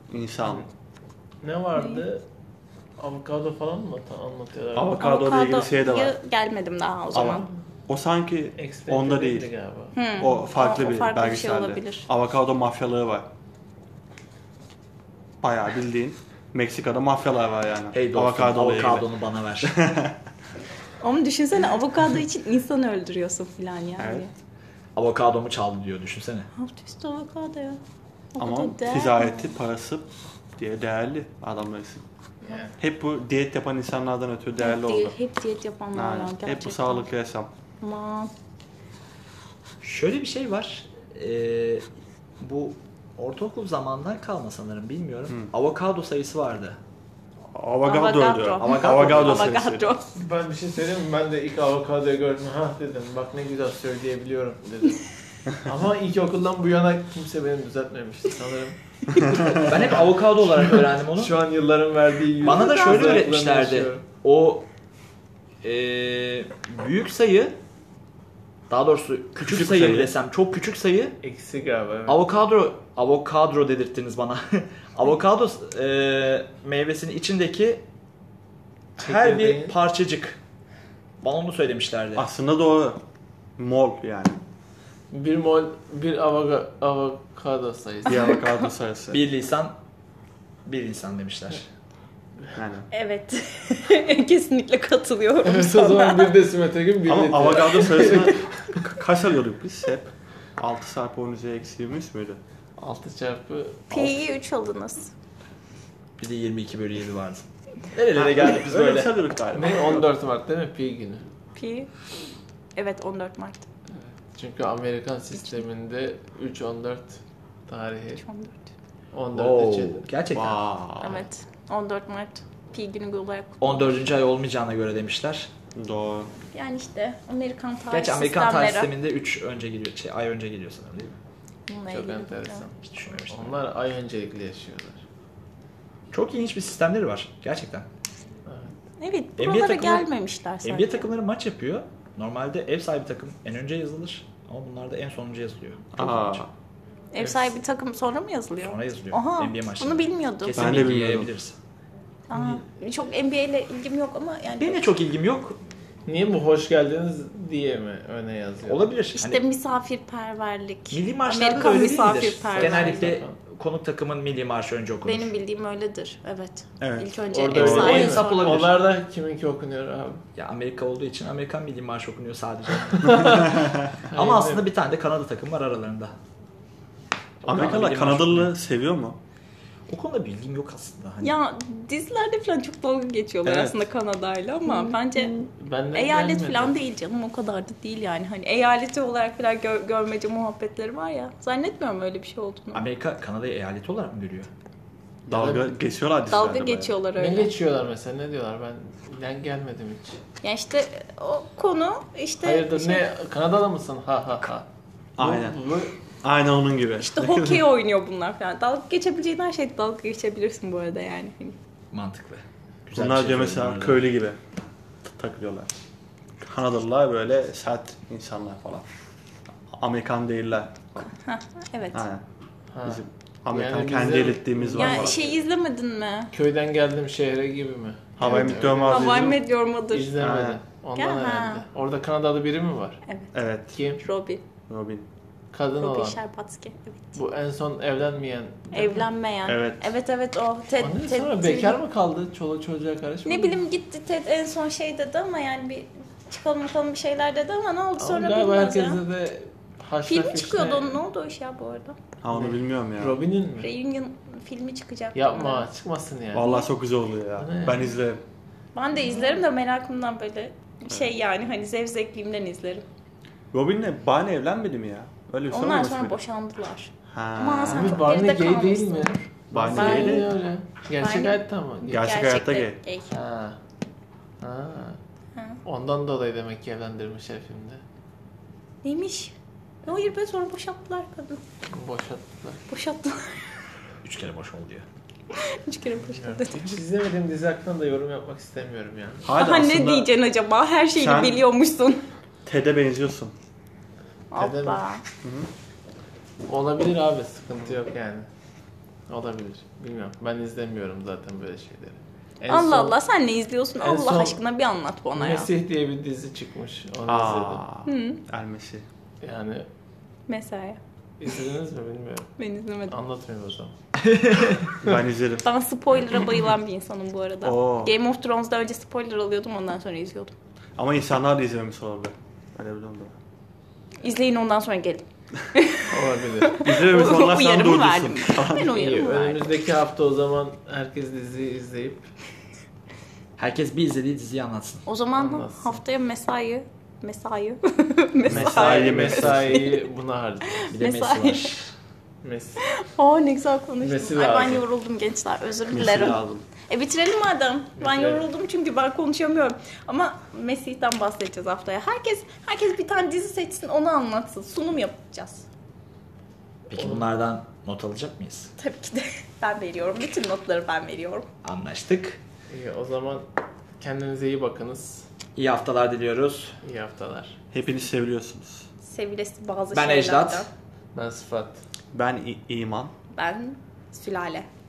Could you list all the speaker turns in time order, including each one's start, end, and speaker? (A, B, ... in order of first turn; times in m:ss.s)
0:00.1-0:00.6 A
0:01.4-0:02.2 B
0:01.8-0:02.1 C
0:03.0-0:05.0 B
0:04.8-0:06.2 A
0:05.0-0:07.5 C
0:07.1-0:09.5 A
0:08.6-0:10.0 B
0:10.0-0:12.0 C
0:10.2-0:13.3 A
0:15.4-0:19.1 A
0:17.9-0:19.7 D
0:19.6-0:20.2 A
0:21.0-0:24.3 C
0:24.0-0:24.2 A
0:25.0-0:26.5 D
0:26.6-0:27.8 C
0:28.3-0:29.6 C
0:28.4-0:32.0 A
0:32.4-0:32.7 B
0:32.8-0:35.1 A
0:34.6-0:37.1 C
0:36.0-0:37.5 A
0:37.8-0:38.3 C
0:39.8-0:41.9 D
0:42.4-0:46.8 D
0:47.5-0:49.9 A
0:47.8-0:50.2 C
0:48.6-0:49.5 D
0:50.2-0:55.0 B
0:55.6-1:04.0 B
0:59.6-1:01.3 D
1:02.4-1:04.7 D
1:02.6-1:03.2 C
1:05.6-1:07.6 D
1:08.7-1:11.1 D
1:09.4-1:10.1 A
1:11.2-1:12.2 B
1:12.1-1:17.8 D
1:19.0-1:20.4 D
1:19.0-1:19.8 B
1:21.2-1:22.2 D
1:22.2-1:23.0 A
1:23.6-1:24.4 A
1:25.1-1:28.3 B
1:28.1-1:28.7 C
1:28.1-1:29.2 A
1:29.1-1:29.8 D
1:30.6-1:31.6 D
1:32.6-1:32.9 A
1:32.9-1:36.4 C
1:35.4-1:38.4 B
1:37.1-1:42.4 A
1:42.8-1:44.1 B
1:43.9-1:45.1 C
1:46.2-1:47.5 D
1:47.9-1:51.2 B
1:48.1-1:50.1 A
1:48.4-1:48.8 D
1:51.6-1:51.9 C
1:52.8-1:53.6 C
1:54.3-1:58.2 B
1:55.3-1:55.6 C
1:58.2-1:58.6 C
1:59.1-2:00.1 B
1:59.3-2:00.6 D
2:00.3-2:01.2 A
2:01.0-2:04.0 C
2:03.6-2:05.5 D
2:05.8-2:06.3 A
2:06.5-2:08.9 C
2:07.9-2:11.1 D
2:11.7-2:12.6 C
2:11.9-2:12.8 B
2:12.8-2:13.6 D
2:13.3-2:15.0 B
2:16.1-2:17.9 D
2:18.4-2:18.8 B
2:19.0-2:21.0 C
2:19.4-2:20.1 D
2:20.6-2:26.5 D
2:26.0-2:26.5 A
2:27.1-2:30.8 C
2:27.2-2:27.5 B
2:28.6-2:31.6 D
2:30.6-2:31.3 A
2:32.3-2:34.9 C
2:32.3-2:32.6 B
2:34.6-2:35.6 D
2:36.1-2:38.8 B
2:38.6-2:39.4 D
2:39.2-2:43.1 C
2:40.9-2:45.3 D
2:42.0-2:43.4 B
2:45.0-2:48.6 C
2:46.8-2:48.0 A
2:47.3-2:50.2 B
2:47.5-2:48.8 D
2:50.4-2:53.6 D
2:53.0-2:54.6 B
2:53.2-2:53.9 A
2:54.1-2:56.1 D
2:57.4-2:59.2 A
2:57.5-2:58.5 D
2:59.9-3:01.4 D
3:01.2-3:05.3 C
3:04.6-3:06.8 B
3:05.9-3:12.8 C
3:12.7-3:14.5 D
3:15.3-3:16.9 A
3:15.3-3:15.7 B
3:16.3-3:17.5 C
3:17.2-3:20.2 B
3:20.4-3:23.1 C
3:22.4-3:24.6 B
3:25.2-3:25.6 A
3:25.2-3:26.0 B
3:26.2-3:27.6 A
3:27.0-3:31.6 C
3:31.9-3:34.1 D
3:32.9-3:34.4 A
3:35.0-3:35.7 A
3:36.4-3:38.9 A
3:39.8-3:41.1 A
3:41.0-3:42.0 C
3:41.9-3:42.2 A
3:42.7-3:45.4 B
3:42.8-3:45.2 A
3:44.8-3:46.3 C
3:46.3-3:49.3 B
3:48.2-3:49.4 A
3:48.8-3:50.1 C
3:49.9-3:53.0 B
3:50.2-3:50.6 A
3:51.0-3:51.6 C
3:53.0-3:53.3 C
3:53.3-3:53.8 A
3:53.7-3:54.0 B
3:54.0-3:54.4 C
3:54.7-3:55.0 A
3:55.5-3:56.2 B
3:55.8-3:57.2 C
3:57.2-3:59.1 B
3:58.7-4:01.8 C
3:59.4-3:59.9 A
4:00.8-4:03.6 B
4:03.3-4:09.0 C
4:08.0-4:11.0 B
4:10.1-4:12.0 C
4:12.2-4:13.2 A
4:12.3-4:13.7 B
4:13.6-4:15.6 C
4:15.1-4:16.6 B
4:16.3-4:18.2 A
4:17.4-4:18.0 B
4:18.7-4:22.8 C
4:23.5-4:26.2 A
4:25.5-4:29.1 C
4:27.1-4:28.0 A
4:27.7-4:32.0 B
4:29.5-4:30.3 A
4:29.7-4:30.4 C
4:31.0-4:33.1 C
4:31.9-4:32.8 A
4:33.1-4:33.6 B
4:34.4-4:35.0 B
4:35.6-4:37.8 B
4:38.8-4:41.4 C
4:41.7-4:42.6 B
4:42.7-4:43.4 C
4:44.0-4:44.9 D
4:45.4-4:46.8 C
4:46.0-4:49.3 B
4:49.2-4:50.1 A
4:49.4-4:52.0 C
4:51.0-4:51.4 A
4:52.4-4:53.3 A
4:54.3-4:55.0 C
4:54.4-4:54.8 B
4:55.2-4:55.5 A
4:56.4-4:58.3 B
4:59.1-5:03.0 B
5:02.5-5:05.5 C
5:03.8-5:04.4 B
5:05.1-5:07.6 B
5:07.1-5:08.8 A
5:07.9-5:08.2 C
5:09.2-5:09.7 B
5:10.3-5:10.8 C
5:11.2-5:12.3 B
5:12.4-5:13.0 C
5:12.9-5:13.7 B
5:14.0-5:14.7 D
5:14.8-5:15.5 A
5:15.4-5:20.3 C
5:17.4-5:17.9 A
5:20.8-5:23.1 A
5:24.0-5:29.5 C
5:25.9-5:26.6 B
5:26.6-5:28.7 A
5:28.4-5:32.0 B
5:33.4-5:34.8 D
5:34.9-5:39.8 C
5:35.1-5:35.8 B
5:38.3-5:39.6 A
5:38.3-5:40.7 B
5:40.6-5:41.5 C
5:40.7-5:41.7 D
5:42.2-5:42.6 B
5:42.6-5:55.4 C
5:43.8-5:44.6 B
5:45.7-5:46.4 A
5:47.8-5:48.3 B
5:56.7-5:58.5 D
5:56.8-5:57.0 B
5:58.6-6:01.3 C
6:01.4-6:02.2 D
6:02.5-6:03.3 B
6:03.8-6:05.1 B
6:05.4-6:06.6 D
6:06.6-6:07.4 B
6:07.5-6:08.6 A
6:08.8-6:10.5 C
6:09.7-6:10.5 D
6:10.9-6:11.6 B
6:11.9-6:12.9 A
6:13.1-6:14.5 C